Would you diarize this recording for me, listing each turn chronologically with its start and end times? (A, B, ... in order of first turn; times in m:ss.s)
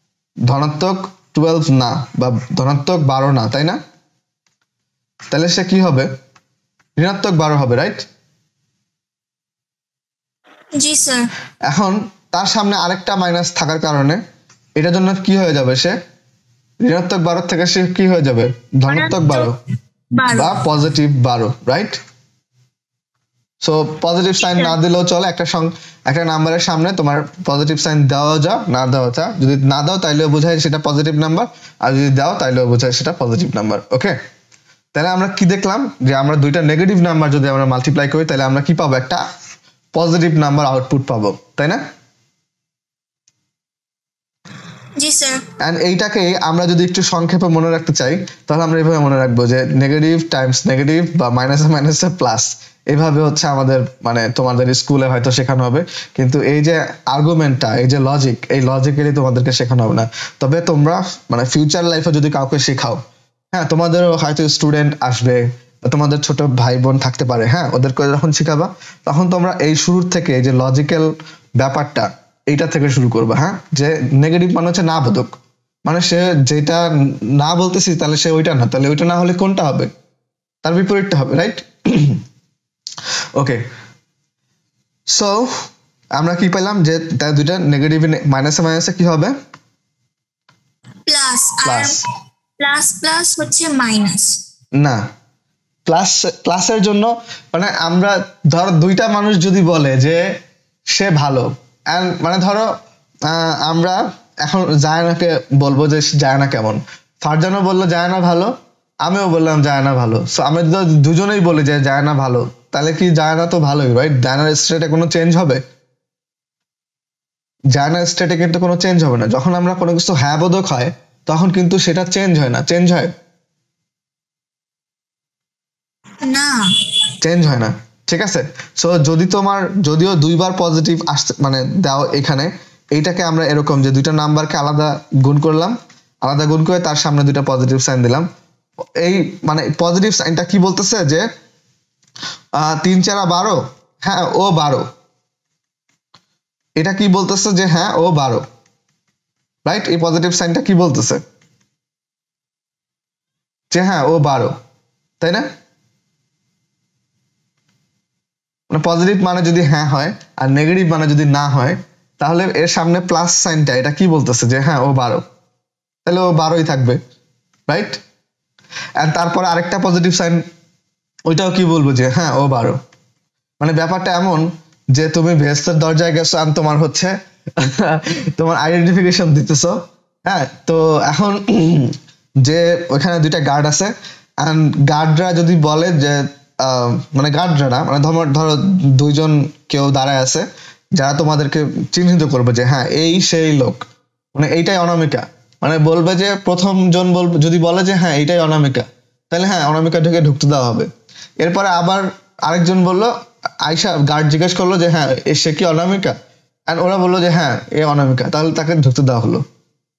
0:00.5-0:03.8 A
0:05.3-0:06.1 A
0:07.0-0:08.0 A
0:10.8-0:11.3 B
0:11.7-0:14.2 A
0:14.8-0:16.0 A
0:16.8-0:19.5 A
0:18.9-0:19.5 B
0:20.2-0:20.6 B
0:20.3-0:22.0 A
0:23.6-0:34.2 A
0:24.4-0:24.8 B
0:34.9-0:39.2 A
0:39.9-0:41.8 A
0:45.0-0:45.4 B
0:45.6-1:03.0 A
1:03.5-1:15.3 A
1:15.9-1:19.9 A
1:20.6-1:22.2 A
1:23.4-1:23.6 A
1:25.1-1:25.7 A
1:26.2-1:29.3 A
1:31.1-1:32.0 B
1:31.6-1:32.0 A
1:32.6-1:34.4 B
1:35.9-1:40.2 A
1:40.9-1:42.7 A
1:43.3-1:48.5 A
1:49.0-1:55.6 A
1:57.7-2:03.1 A
2:06.3-2:06.6 B
2:07.2-2:18.3 A
2:19.0-2:21.2 A
2:22.6-2:24.9 A
2:26.8-2:28.5 A
2:29.6-2:31.2 A
2:33.7-2:34.6 A
2:35.2-2:35.5 A
2:38.7-2:45.2 A
2:46.1-2:47.0 A
2:47.7-2:48.0 A
2:49.0-2:50.4 A
2:51.3-2:52.8 A
2:53.6-3:13.8 A
3:14.4-3:20.9 A
3:21.4-3:23.1 A
3:23.6-3:26.2 A
3:26.7-3:29.4 A